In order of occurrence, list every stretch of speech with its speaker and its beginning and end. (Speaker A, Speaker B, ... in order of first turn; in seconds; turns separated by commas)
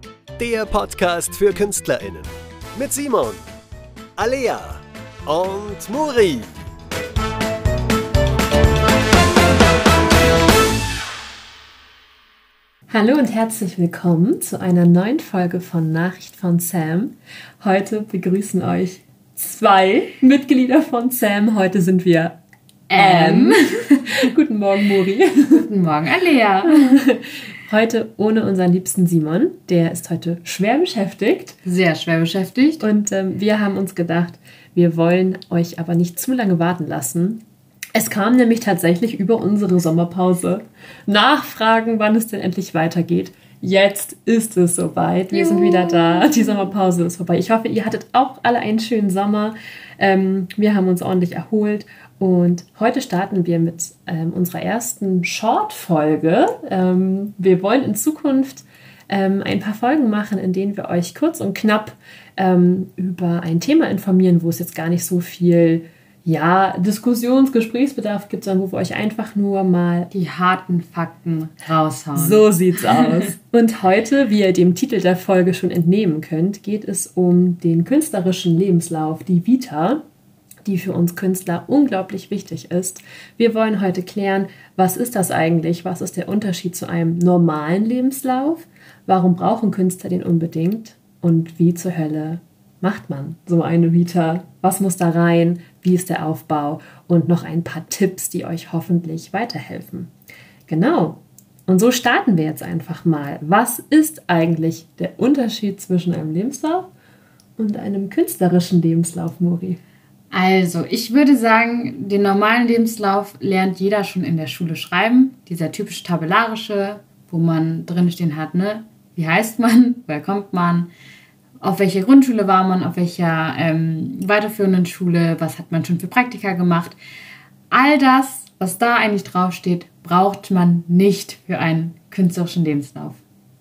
Speaker A: 0.4-3.4, Speaker A: 4.2-6.5, Speaker B: 12.9-22.4, Speaker C: 22.9-24.1, Speaker B: 23.0-25.7, Speaker C: 25.5-27.0, Speaker B: 26.6-31.6, Speaker C: 31.6-32.8, Speaker B: 32.8-37.4, Speaker B: 37.9-70.1, Speaker C: 45.3-46.4, Speaker C: 70.1-72.5, Speaker B: 72.1-80.0, Speaker B: 80.6-100.1, Speaker B: 100.7-106.9, Speaker B: 107.6-109.8, Speaker C: 110.3-120.9, Speaker C: 121.6-127.0, Speaker C: 127.7-133.2